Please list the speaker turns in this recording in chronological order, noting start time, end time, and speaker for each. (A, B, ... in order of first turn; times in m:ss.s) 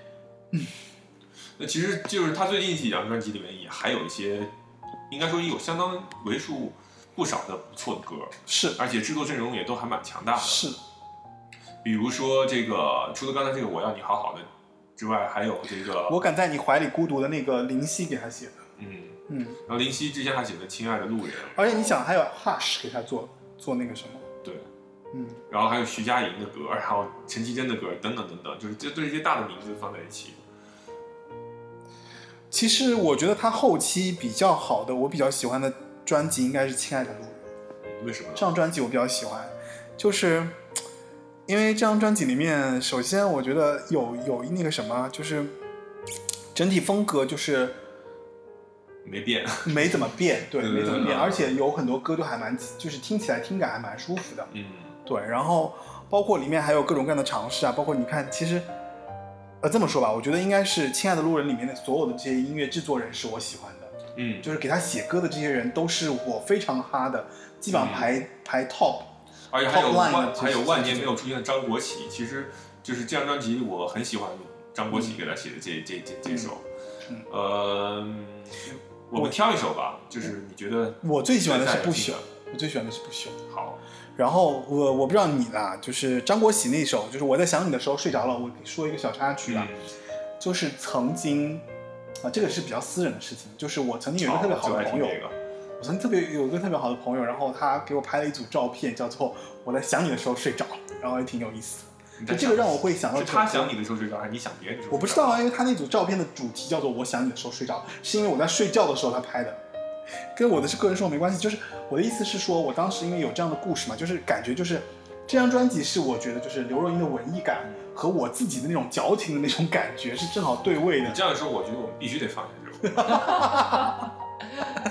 0:01.6-0:04.5 A
0:05.1-0:10.7 A
0:08.5-0:08.8 B
0:10.4-0:10.8 B
0:11.8-0:16.2 A
0:16.1-0:18.6 B
0:18.8-0:22.0 A
0:19.3-0:19.6 B
0:21.6-0:24.3 B
0:25.1-0:25.4 B
0:25.5-0:30.4 A
0:32.5-0:37.4 B
0:37.9-0:38.5 A
0:38.4-0:40.6 B
0:41.5-0:45.6 B
0:46.6-0:47.8 B
0:49.0-0:51.5 A
0:49.6-0:54.5 B
0:54.5-0:54.9 A
0:55.1-0:58.7 B
0:59.6-1:09.1 B
1:04.2-1:04.5 A
1:07.7-1:08.1 A
1:09.5-1:16.6 A
1:09.7-1:11.2 B
1:14.9-1:15.2 B
1:16.3-1:16.5 B
1:17.3-1:22.3 A
1:21.0-1:23.4 B
1:23.5-1:23.8 A
1:24.2-1:29.7 B
1:29.5-1:29.9 A
1:30.4-1:31.6 B
1:32.2-1:35.2 B
1:34.2-1:35.4 A
1:35.8-1:43.7 B
1:42.2-1:45.4 A
1:44.9-1:49.6 B
1:50.4-2:01.2 B
2:01.0-2:03.4 A
2:02.9-2:03.9 B